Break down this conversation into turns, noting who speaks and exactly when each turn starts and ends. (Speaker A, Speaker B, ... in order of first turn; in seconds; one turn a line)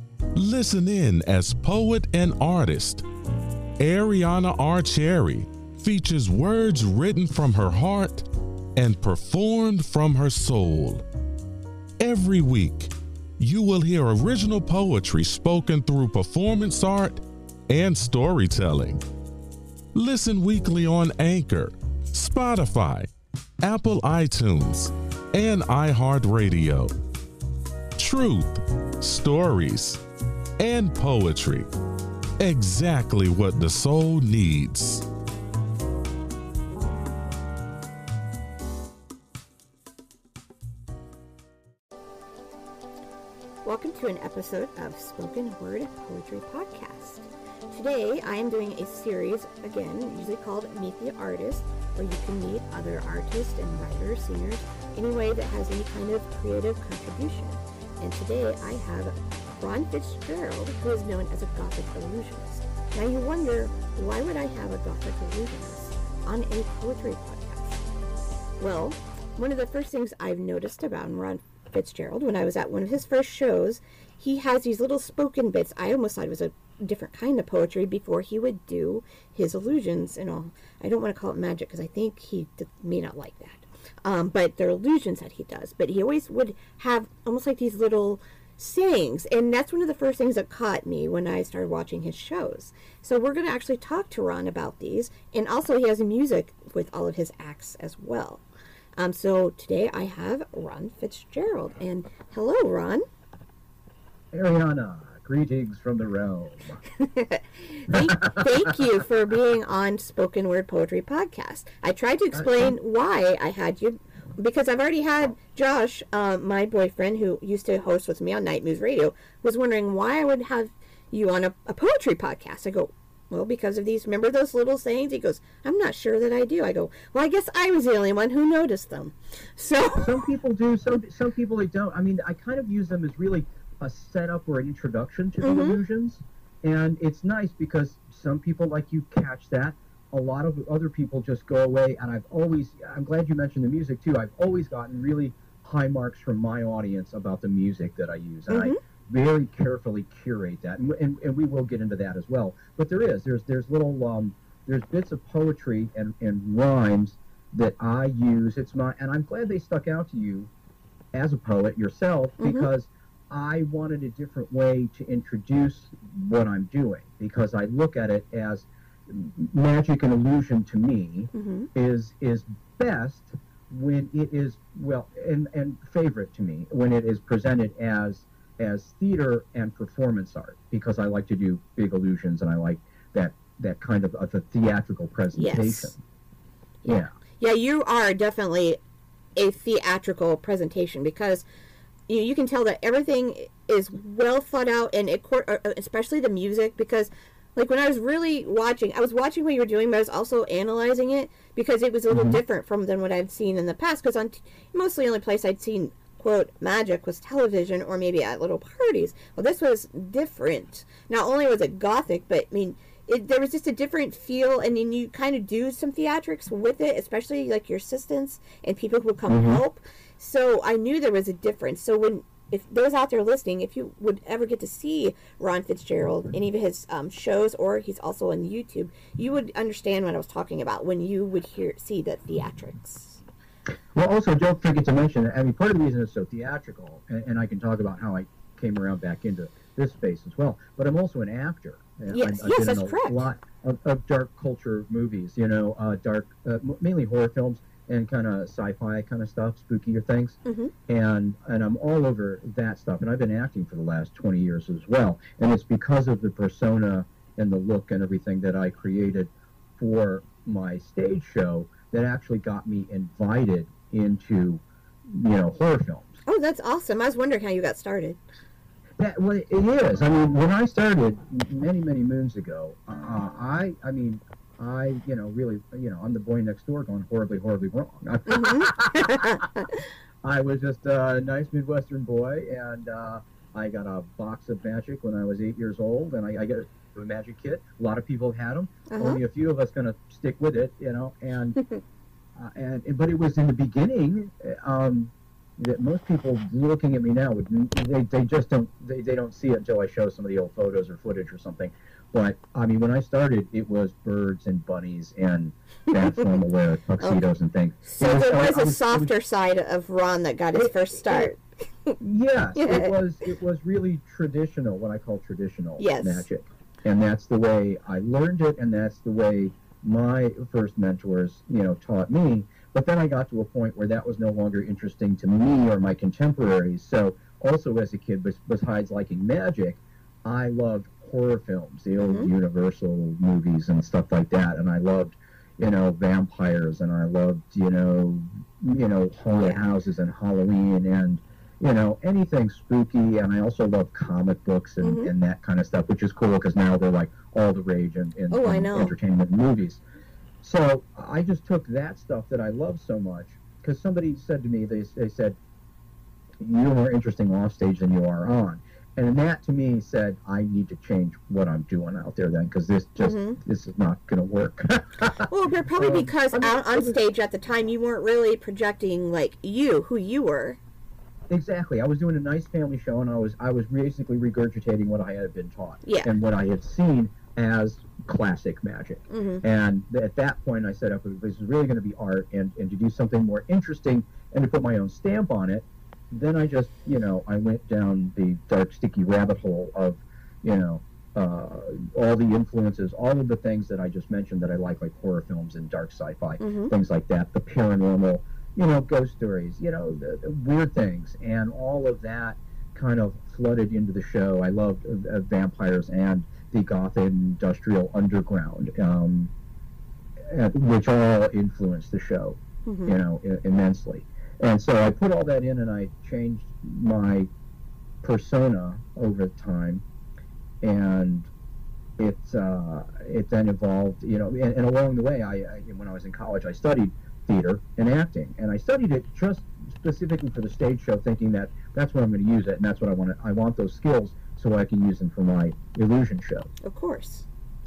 Speaker A: 0.3-3.0
Speaker A: 3.8-11.0
Speaker A: 12.0-19.0
Speaker A: 19.9-23.1
Speaker A: 23.6-26.9
Speaker A: 28.0-30.0
Speaker A: 30.6-31.7
Speaker A: 32.4-35.0
Speaker B: 43.6-67.9
Speaker B: 68.6-98.4
Speaker B: 99.0-103.1
Speaker C: 104.3-106.8
Speaker B: 107.0-130.2
Speaker C: 107.9-108.5
Speaker C: 112.3-112.8
Speaker C: 129.9-160.5
Speaker B: 135.4-135.8
Speaker B: 148.5-148.8
Speaker C: 161.1-186.0
Speaker B: 162.4-162.7
Speaker B: 171.3-171.7
Speaker B: 185.3-185.9
Speaker C: 186.8-187.1
Speaker B: 186.9-188.8
Speaker B: 189.4-191.4
Speaker B: 192.1-233.2
Speaker C: 202.1-202.4
Speaker C: 219.3-219.6
Speaker C: 233.9-266.2
Speaker B: 242.1-243.2
Speaker B: 250.5-250.7
Speaker B: 266.3-268.2
Speaker C: 269.0-279.4
Speaker B: 278.3-279.7
Speaker C: 280.2-291.6
Speaker B: 288.9-289.2
Speaker C: 292.4-309.1
Speaker B: 307.0-307.2
Speaker B: 307.8-312.0
Speaker C: 310.6-311.3
Speaker C: 312.0-349.8
Speaker B: 312.6-312.9
Speaker B: 315.8-316.3
Speaker B: 332.0-332.3
Speaker B: 339.4-339.6
Speaker B: 344.8-345.1
Speaker B: 348.3-348.9
Speaker C: 350.4-355.4
Speaker C: 356.4-367.0
Speaker B: 363.0-363.4
Speaker B: 365.3-370.6
Speaker C: 371.3-409.3
Speaker B: 375.9-376.1
Speaker B: 379.1-379.4
Speaker B: 396.4-396.7
Speaker C: 410.2-417.3
Speaker B: 412.7-413.0
Speaker C: 418.0-419.8
Speaker C: 420.6-421.3
Speaker C: 422.0-436.5
Speaker B: 436.6-437.3